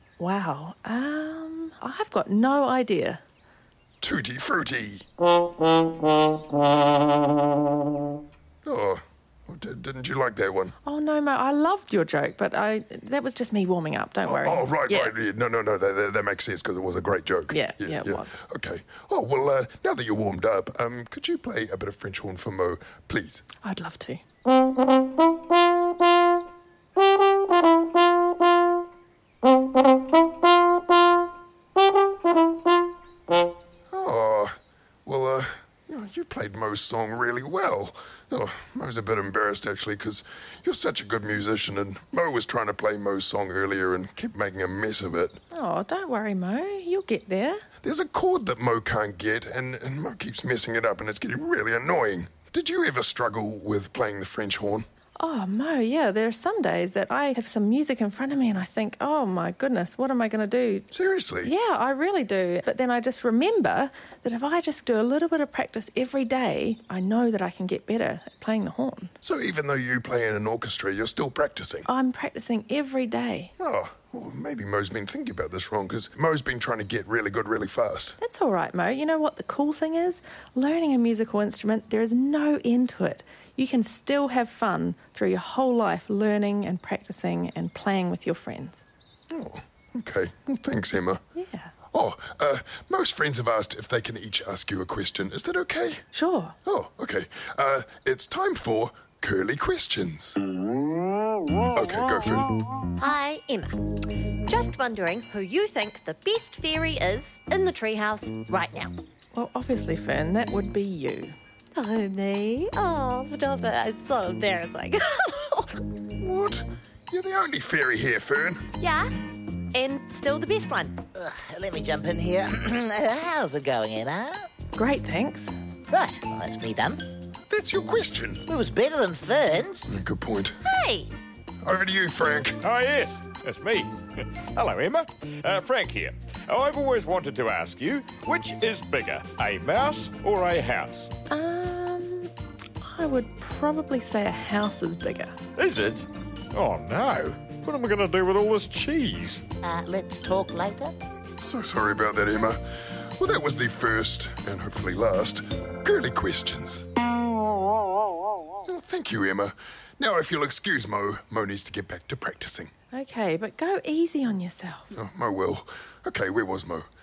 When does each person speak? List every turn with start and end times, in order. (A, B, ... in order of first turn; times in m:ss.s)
0:00.2-0:03.2 A
0:04.0-0:05.0 B
0:08.6-0:10.7 B
0:10.8-0:15.1 A
0:14.2-0:23.4 B
0:17.5-0:18.4 A
0:23.6-0:24.2 A
0:33.9-0:45.4 B
0:45.5-0:47.6 A
0:47.8-0:54.8 B
0:55.2-1:00.9 A
1:00.9-1:01.5 B
1:01.4-1:09.1 A
1:09.2-1:11.9 B
1:11.8-1:13.5 A
1:13.6-1:18.2 B
1:18.2-1:28.8 A
1:29.3-1:31.2 B
1:31.3-1:31.7 A
1:31.9-1:36.0 B
1:36.1-1:36.6 A
1:36.6-1:40.4 B
1:41.7-1:42.5 B
1:43.0-1:43.8 C
1:44.4-1:48.9 C
1:49.3-1:51.3 A
1:51.7-1:55.8 C
1:56.2-1:58.6 B
1:58.8-1:59.1 C
1:59.7-2:01.0 C
2:01.1-2:04.5 D
2:04.7-2:05.5 A
2:05.9-2:07.0 D
2:07.5-2:08.5 B
2:08.5-2:09.9 D
2:09.8-2:10.6 B
2:10.6-2:11.1 C
2:11.6-2:12.6 B
2:12.6-2:21.1 E
2:21.3-2:25.4 A
2:25.6-2:29.4 E
2:29.6-2:31.0 D
2:31.4-2:32.6 B
2:33.2-2:36.8 B
2:38.6-2:42.7 B
2:42.9-2:44.9 A
2:44.9-2:46.9 B